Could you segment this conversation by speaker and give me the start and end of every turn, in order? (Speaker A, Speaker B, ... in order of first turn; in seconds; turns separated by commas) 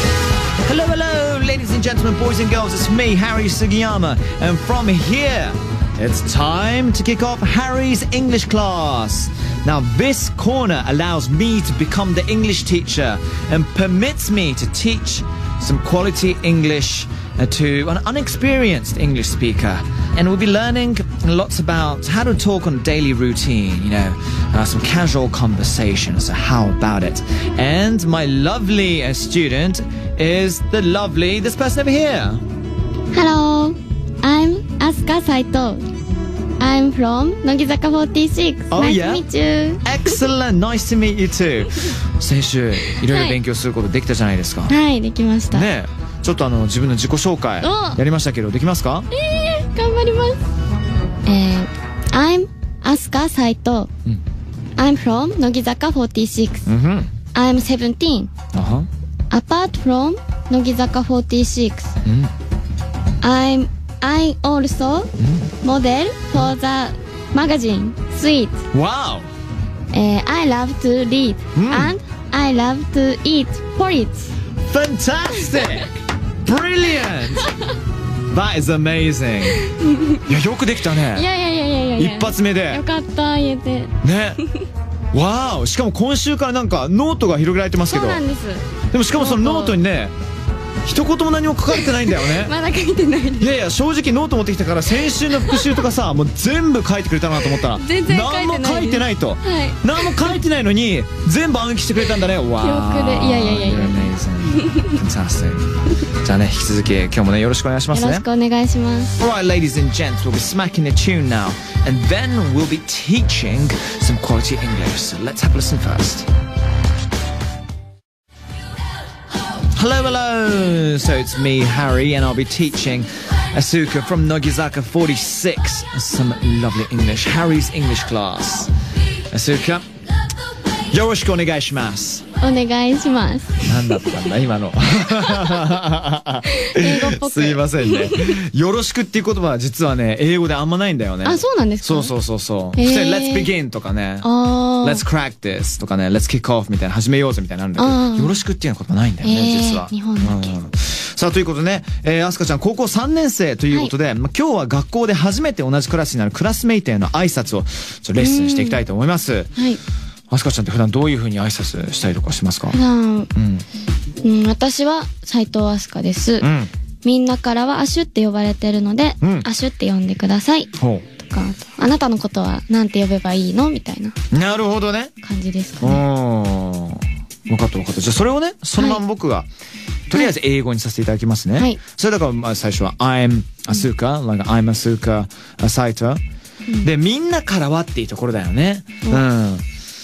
Speaker A: 0.6-32.4, Speaker B: 33.1-35.9, Speaker B: 36.6-40.2, Speaker A: 38.7-39.2, Speaker A: 39.8-44.7, Speaker B: 43.0-43.4, Speaker B: 44.7-45.7, Speaker A: 45.5-49.1, Speaker B: 47.6-48.0, Speaker B: 49.1-50.4, Speaker B: 51.2-53.9, Speaker B: 54.8-56.6, Speaker A: 56.6-57.1, Speaker B: 57.3-58.3, Speaker A: 58.5-58.9, Speaker B: 59.3-61.9, Speaker A: 62.0-62.3, Speaker B: 63.2-65.1, Speaker A: 65.2-65.5, Speaker B: 65.6-68.6, Speaker A: 68.7-69.3, Speaker B: 69.9-74.3, Speaker A: 71.5-72.0, Speaker A: 74.6-75.9, Speaker A: 76.4-77.5, Speaker A: 78.3-79.6, Speaker B: 79.6-80.2, Speaker A: 80.1-81.3, Speaker B: 81.1-84.0, Speaker A: 82.0-82.8, Speaker A: 84.0-84.4, Speaker A: 85.1-88.2, Speaker B: 87.8-89.8, Speaker A: 88.9-90.1, Speaker A: 90.8-92.5, Speaker B: 91.7-93.6, Speaker A: 93.4-108.2, Speaker B: 95.3-95.7, Speaker B: 97.6-100.4, Speaker B: 102.6-104.9, Speaker B: 107.9-109.1, Speaker A: 109.1-116.3, Speaker A: 119.7-128.7, Speaker A: 129.3-129.8, Speaker A: 130.9-132.2, Speaker B: 132.4-134.0, Speaker A: 133.7-144.3, Speaker B: 136.5-138.3, Speaker B: 141.2-142.1, Speaker B: 142.8-143.5, Speaker B: 144.2-145.0, Speaker A: 144.8-159.5, Speaker B: 147.8-148.4, Speaker B: 149.2-150.5, Speaker B: 158.2-158.8, Speaker A: 160.3-162.8, Speaker B: 162.7-163.3, Speaker A: 163.3-163.7, Speaker B: 164.2-166.5, Speaker A: 166.4-166.7, Speaker B: 167.0-174.1, Speaker A: 169.2-169.5, Speaker A: 170.7-171.1, Speaker A: 174.3-175.1, Speaker B: 175.2-176.0, Speaker A: 175.8-179.5, Speaker B: 178.8-179.0, Speaker A: 180.1-186.2, Speaker A: 186.8-189.6